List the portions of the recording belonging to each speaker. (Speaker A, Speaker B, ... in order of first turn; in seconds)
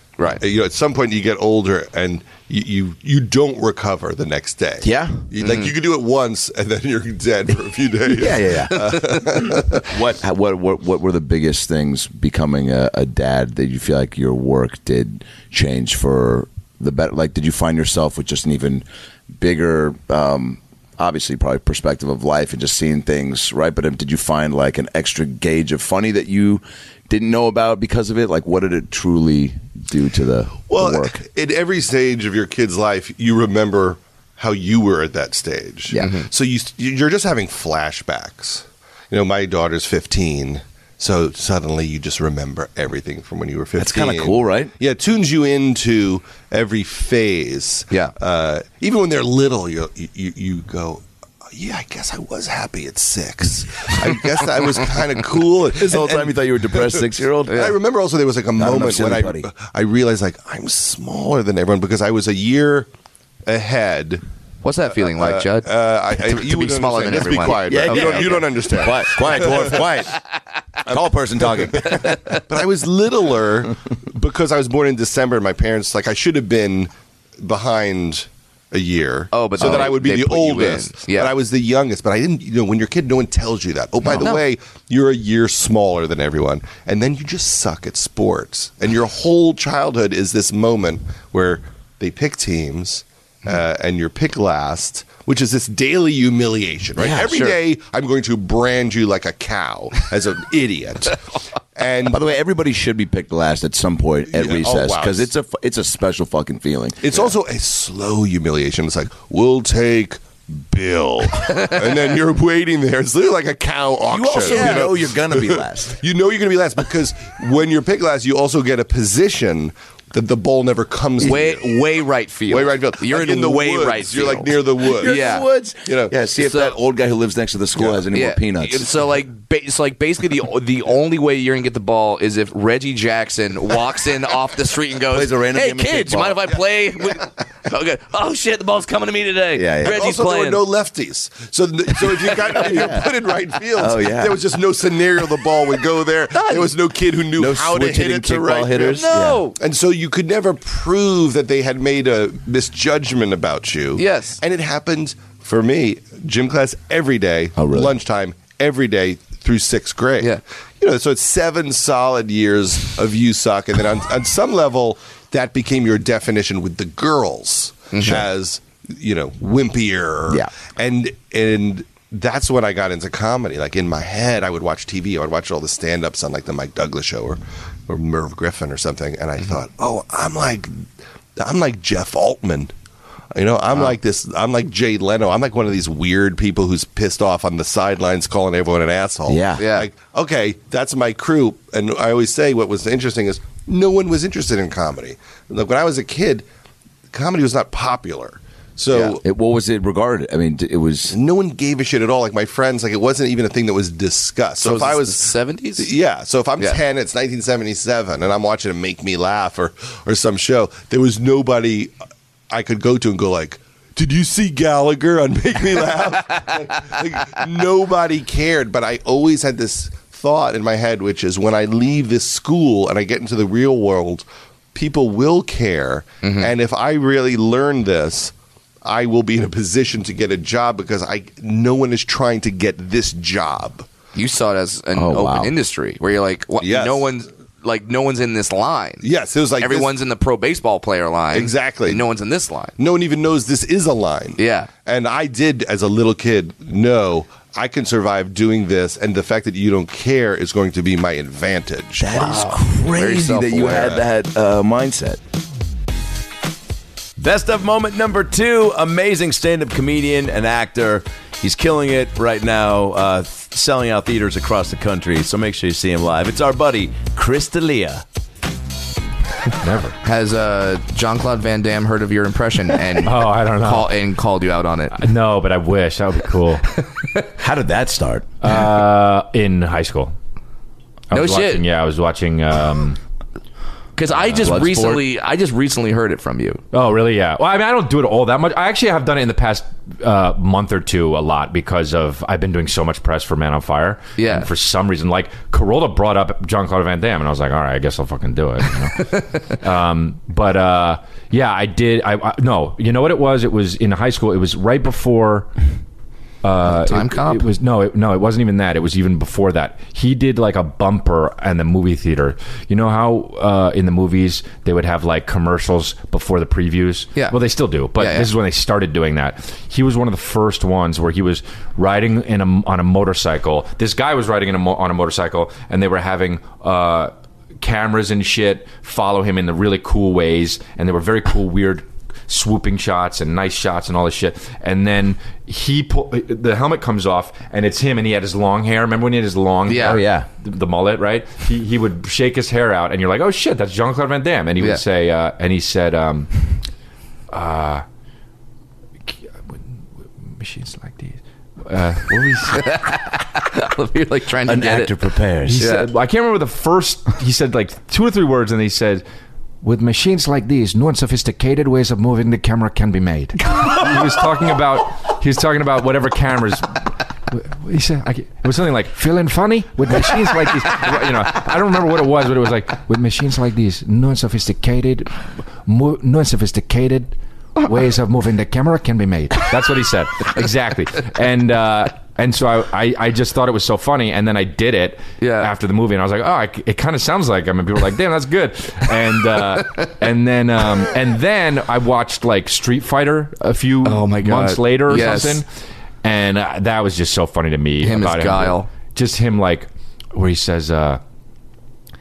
Speaker A: 0.4-9.8, 30.7-62.9, 63.5-64.2, 65.0-70.1, 71.4-101.2, 101.8-102.2, 104.3-105.3, 107.0-121.9, 122.5-126.1, 139.9-180.8, 181.4-182.7, 183.3-196.4, 197.1-199.2, 201.1-211.9, 212.5-228.3, 228.8-233.9, 236.6-237.1, 239.0-239.9, 241.3-242.0, 242.8-252.4, 253.7-254.0
Speaker B: 4.8-5.2, 8.1-18.9, 19.4-31.1, 43.8-44.7, 55.8-57.6, 58.6-59.5, 67.7-70.1, 70.9-72.2, 97.0-97.3, 102.1-107.3, 114.1-116.0, 125.0-128.9, 135.1-136.5, 139.6-140.0, 142.6-143.1, 143.8-144.3, 147.4-149.4, 157.6-157.9, 189.3-189.6, 199.2-201.2, 234.9-235.5, 252.0-255.2, 257.2-268.0, 277.4-278.3, 284.4-285.0, 339.8-340.3, 354.5-355.7
Speaker C: 5.4-5.7, 35.9-36.3, 57.5-57.8, 64.6-68.5, 79.3-81.3, 84.0-84.4, 97.1-97.6, 111.5-111.8, 114.4-114.9, 121.2-125.5, 126.4-126.8, 128.1-140.6, 142.1-143.0, 146.3-146.7, 148.9-149.6, 154.0-154.4, 167.9-168.3, 189.6-189.9, 198.9-199.2, 204.6-205.9, 226.2-226.5, 234.2-239.1, 239.6-242.7, 244.4-244.7, 252.1-254.0, 270.0-275.0, 281.1-281.6, 284.0-286.6, 294.2-294.5, 306.7-307.5, 318.0-318.3, 339.7-340.0, 352.5-354.9, 355.6-355.9, 385.2-385.5, 393.8-395.4, 397.8-398.7
Speaker D: 269.6-270.0, 273.0-273.9, 274.9-276.7, 278.4-280.1, 281.1-283.0, 284.3-284.5, 286.7-305.5, 306.4-346.3, 347.3-347.9, 349.1-349.6, 350.3-352.8, 355.5-359.0, 359.6-366.8, 367.3-395.5, 396.0-401.0